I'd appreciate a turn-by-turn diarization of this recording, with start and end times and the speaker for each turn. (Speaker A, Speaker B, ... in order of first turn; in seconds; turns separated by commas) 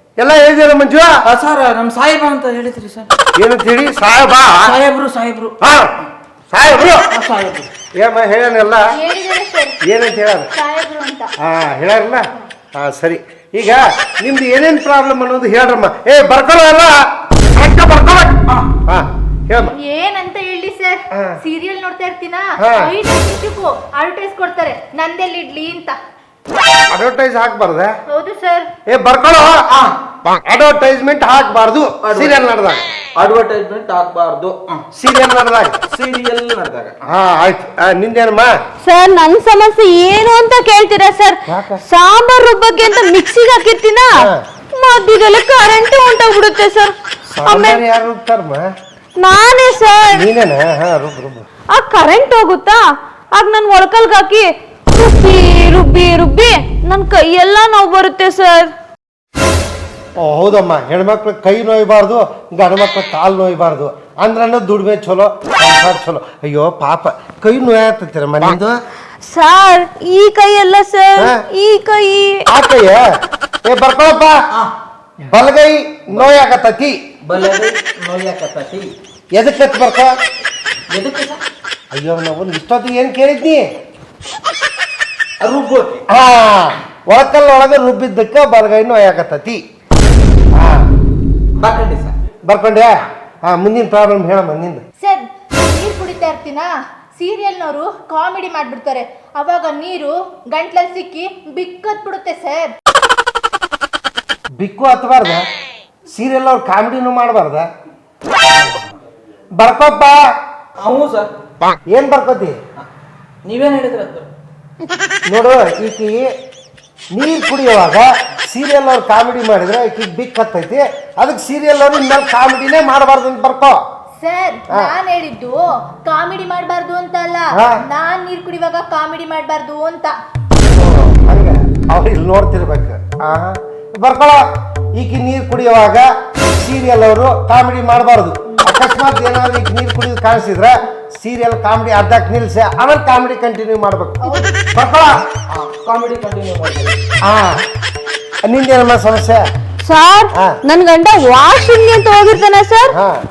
Speaker A: 0.2-1.2, Speaker B: 1.2-3.1, Speaker A: 3.4-4.8, Speaker B: 4.6-5.5, Speaker A: 5.6-6.0, Speaker A: 6.5-7.1, Speaker B: 7.1-7.7, Speaker A: 8.0-8.9, Speaker C: 8.9-9.8, Speaker A: 9.8-10.5, Speaker C: 10.5-11.3, Speaker A: 11.4-17.0, Speaker A: 17.6-19.8, Speaker C: 19.8-26.0, Speaker A: 22.6-22.9, Speaker A: 26.9-27.9, Speaker C: 28.1-28.7, Speaker A: 28.9-29.6, Speaker B: 29.7-29.9, Speaker A: 30.2-32.8, Speaker B: 32.0-32.4, Speaker B: 33.2-34.8, Speaker A: 34.9-35.8, Speaker B: 35.9-37.0, Speaker A: 37.1-38.5, Speaker D: 38.8-44.2, Speaker A: 41.5-41.8, Speaker D: 44.8-46.9, Speaker A: 47.3-48.6, Speaker D: 47.5-47.8, Speaker D: 49.2-50.2, Speaker A: 50.1-51.5, Speaker D: 51.7-52.8, Speaker D: 53.3-58.7, Speaker A: 60.2-68.8, Speaker D: 69.2-72.4, Speaker A: 72.5-73.1, Speaker A: 73.7-74.4, Speaker A: 75.3-77.0, Speaker B: 77.2-78.9, Speaker A: 79.3-80.1, Speaker B: 80.9-81.4, Speaker A: 81.9-83.7, Speaker B: 85.4-86.0, Speaker A: 86.1-89.6, Speaker A: 90.5-90.9, Speaker B: 91.6-92.2, Speaker A: 92.5-94.8, Speaker C: 95.0-102.7, Speaker A: 104.6-105.4, Speaker A: 106.1-107.7, Speaker B: 108.6-108.9, Speaker A: 109.6-110.2, Speaker B: 110.8-111.3, Speaker A: 111.9-112.6, Speaker B: 113.5-114.3, Speaker A: 115.3-116.3, Speaker A: 117.1-123.8, Speaker C: 124.2-130.2, Speaker A: 130.7-145.2, Speaker C: 144.2-144.6, Speaker B: 145.5-147.0, Speaker A: 147.2-147.6, Speaker A: 148.5-149.4, Speaker D: 149.8-152.9, Speaker A: 152.9-153.2